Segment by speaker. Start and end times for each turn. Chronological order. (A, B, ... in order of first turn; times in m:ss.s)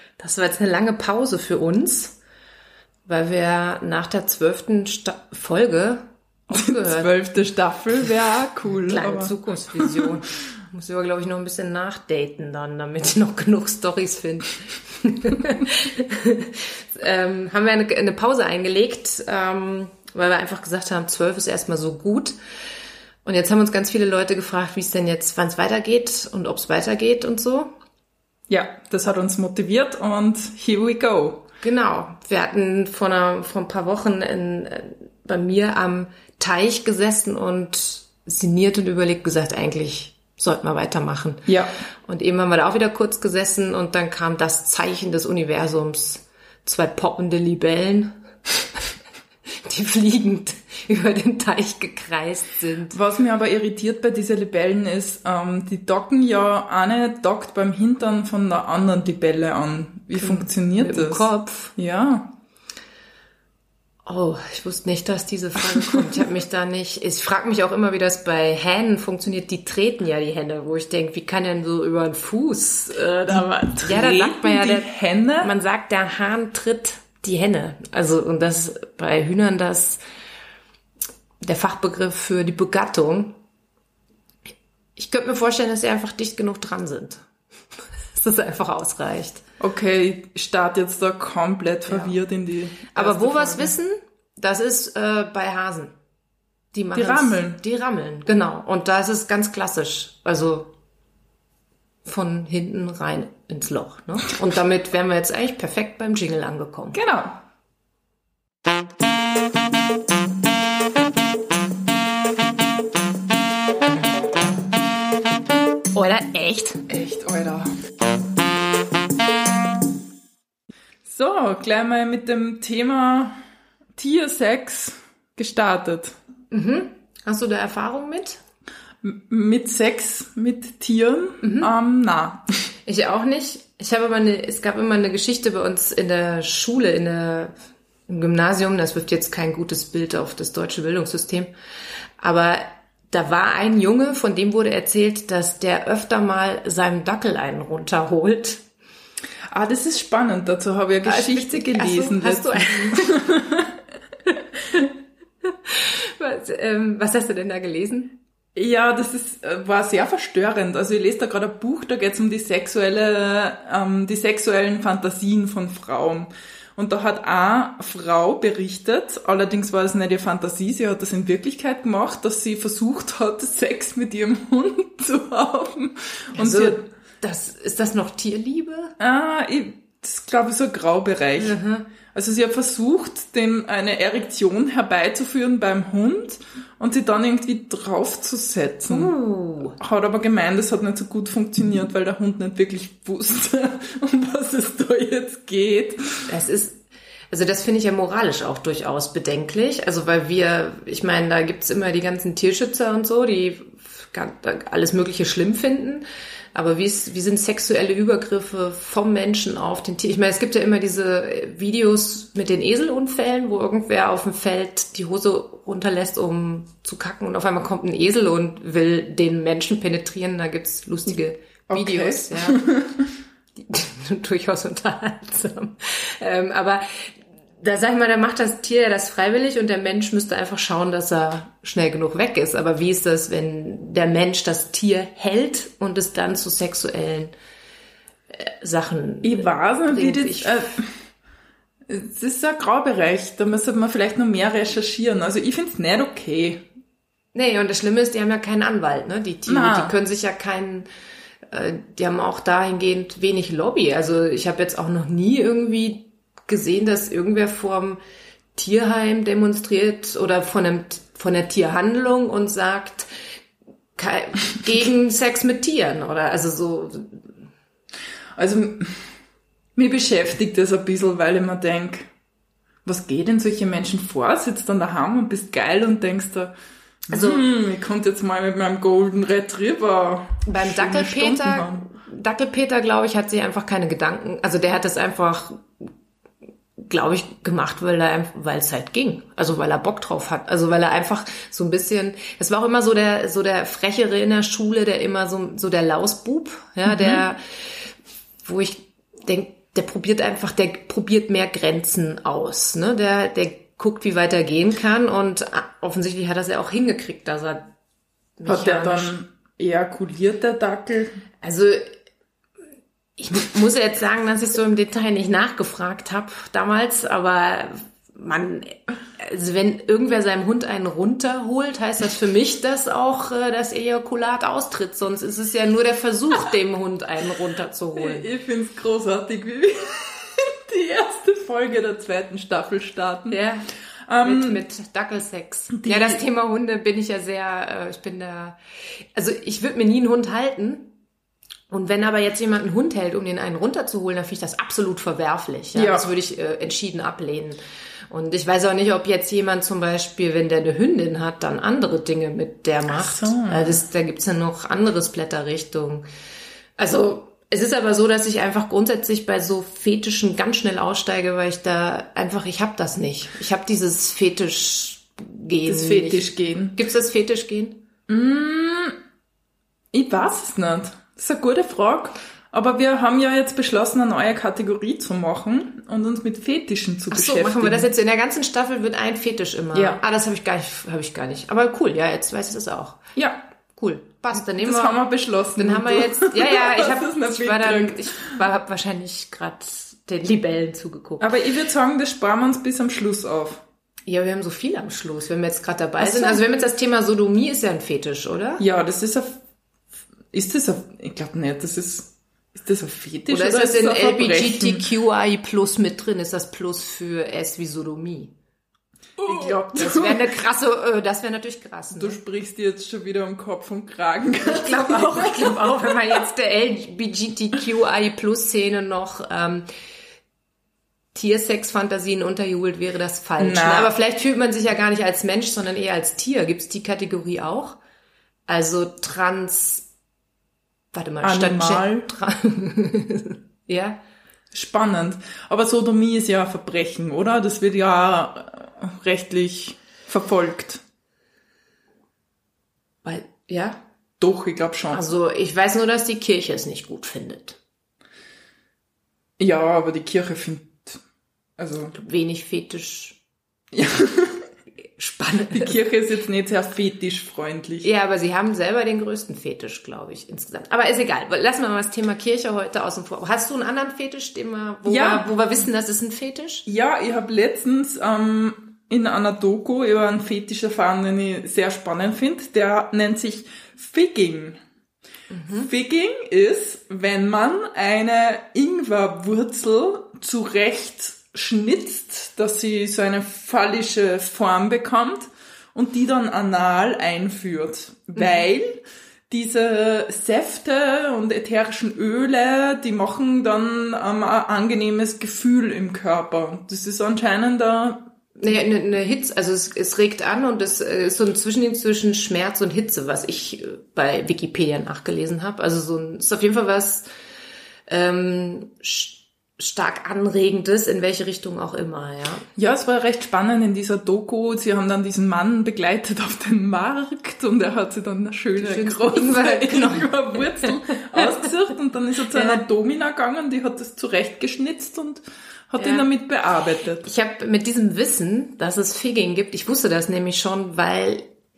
0:00.2-0:02.2 A
0:03.0-0:07.1 A
0:06.5-0:10.1 B
0:08.9-0:22.4 A
0:23.2-0:27.7 A
0:28.5-0:31.4 B
0:31.6-0:41.5 A
0:41.5-0:41.7 B
0:42.0-0:48.2 A
0:49.6-0:53.0 A
0:52.9-1:02.3 B
1:00.2-1:01.7 A
1:04.0-1:20.0 A
1:13.3-1:15.5 B
1:21.4-1:23.4 A
1:25.0-1:27.2 A
1:28.1-1:29.4 A
1:29.6-1:33.7 B
1:31.9-1:32.1 A
1:32.9-1:35.9 A
1:36.7-1:40.7 A
1:36.9-1:37.6 B
1:42.0-1:47.0 A
1:46.9-1:47.3 B
1:55.9-1:56.8 A
1:56.9-1:57.7 B
2:01.0-2:03.4 B
2:04.0-2:06.2 B
2:06.5-2:08.4 A
2:09.0-2:12.5 B
2:11.4-2:11.7 A
2:12.8-2:17.5 A
2:18.1-2:21.5 A
2:22.2-2:28.6 A
2:29.5-2:33.8 B
2:31.0-2:33.2 A
2:35.4-2:38.1 A
2:38.5-2:56.8 B
2:56.3-2:58.9 A
2:59.0-3:01.6 B
3:01.4-3:01.9 A
3:02.1-3:09.1 B
3:08.9-3:09.8 A
3:09.8-3:16.2 B
3:16.3-3:42.6 A
3:41.7-3:43.1 B
3:43.6-3:57.3 A
3:58.3-4:00.7 A
3:59.2-4:01.0 B
4:01.9-4:06.6 B
4:07.3-4:10.9 A
4:09.4-4:09.9 B
4:11.5-4:18.0 A
4:18.5-4:23.1 A
4:24.0-4:27.3 A
4:28.4-4:29.1 B
4:29.8-4:32.1 B
4:32.8-4:36.5 B
4:37.1-4:41.9 B
4:37.1-4:37.4 A
4:40.4-4:45.8 A
4:46.8-4:57.8 A
4:56.8-4:57.2 B
4:58.4-5:07.7 A
5:08.4-5:09.1 A
5:08.5-5:11.1 B
5:11.4-5:11.9 A
5:13.2-5:28.2 A
5:28.0-5:33.4 B
5:33.3-5:33.7 A
5:34.1-5:34.6 B
5:34.2-5:38.6 A
5:35.8-5:36.2 B
5:39.1-5:40.9 A
5:41.7-5:47.6 A
5:45.7-5:46.0 B
5:48.1-5:56.0 A
5:52.9-5:53.8 B
5:56.8-6:07.8 A
6:05.6-6:06.8 B
6:08.1-6:09.0 B
6:09.9-6:17.9 B
6:17.1-6:23.0 A
6:19.7-6:20.0 B
6:23.2-6:23.4 B
6:23.7-6:25.0 A
6:24.5-6:28.3 B
6:25.6-6:31.3 A
6:31.2-6:33.6 B
6:34.1-6:38.6 A
6:36.0-6:36.4 B
6:38.6-6:39.3 B
6:40.3-6:44.8 B
6:43.3-6:48.3 A
6:49.2-6:50.3 B
6:49.2-6:52.2 A
6:51.9-6:55.9 B
6:54.4-6:59.7 A
7:01.1-7:07.8 A
7:03.4-7:03.9 B
7:08.5-7:09.9 A
7:10.9-7:14.0 A
7:11.2-7:12.1 B
7:14.5-7:20.8 B
7:23.0-7:23.8 A
7:24.2-7:25.0 B
7:24.9-7:27.6 A
7:29.4-7:31.0 B
7:31.6-7:31.9 B
7:31.9-7:33.2 A
7:33.7-7:34.5 B
7:35.0-7:35.8 A
7:35.5-7:37.9 B
7:37.8-7:46.6 A
7:44.9-7:45.3 B
7:46.6-7:54.6 B
7:55.3-7:55.7 A
7:55.5-8:18.6 B
8:18.4-8:27.1 A
8:27.9-8:32.4 A
8:32.6-8:47.0 B
8:38.6-8:41.5 A
8:42.3-8:42.6 A
8:45.8-8:46.1 A
8:47.0-8:51.4 A